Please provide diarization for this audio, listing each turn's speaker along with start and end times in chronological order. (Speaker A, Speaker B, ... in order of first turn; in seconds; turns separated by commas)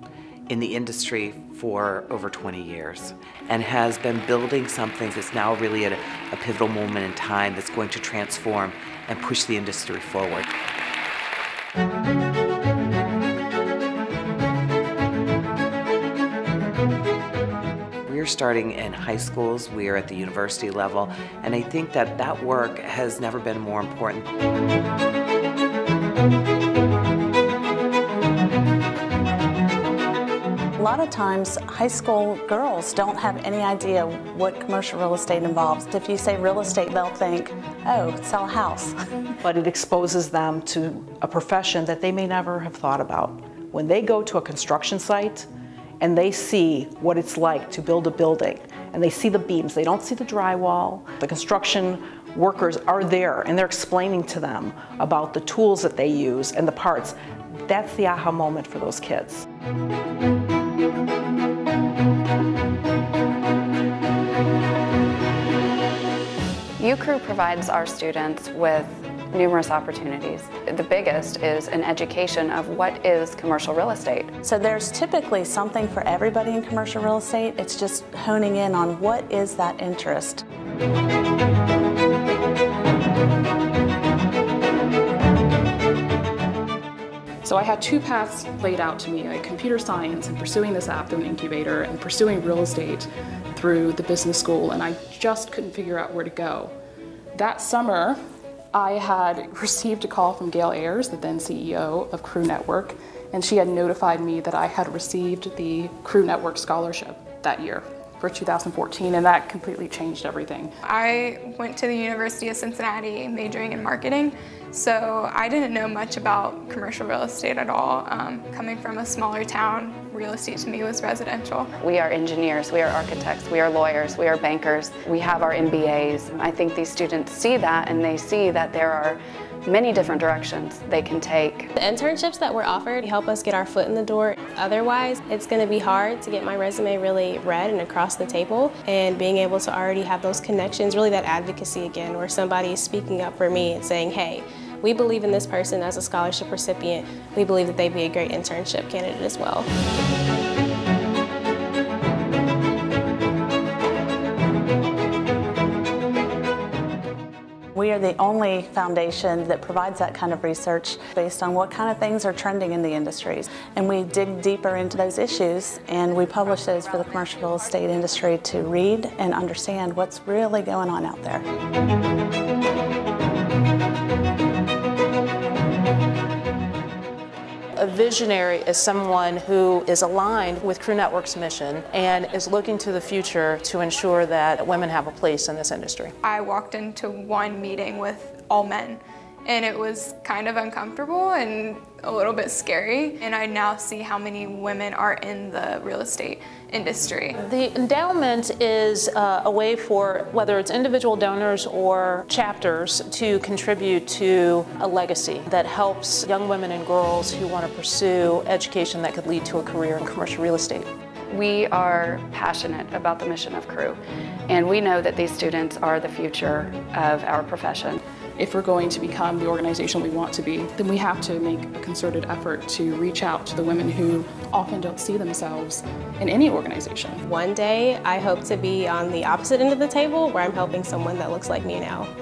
Speaker A: 0.5-10.5, Speaker B: 5.8-6.5, Speaker A: 18.1-24.3, Speaker C: 30.8-38.9, Speaker D: 39.4-45.5, Speaker D: 46.0-57.2, Speaker D: 57.7-59.5, Speaker E: 66.8-74.3, Speaker C: 74.4-80.4, Speaker F: 87.4-96.7, Speaker F: 97.3-98.2, Speaker F: 98.7-110.8, Speaker B: 110.9-121.7, Speaker E: 121.8-131.7, Speaker G: 131.8-149.7, Speaker C: 157.8-171.5, Speaker H: 177.8-186.1, Speaker B: 186.2-197.3, Speaker H: 197.4-210.9, Speaker E: 211.3-218.0, Speaker F: 218.4-227.2, Speaker G: 227.2-232.1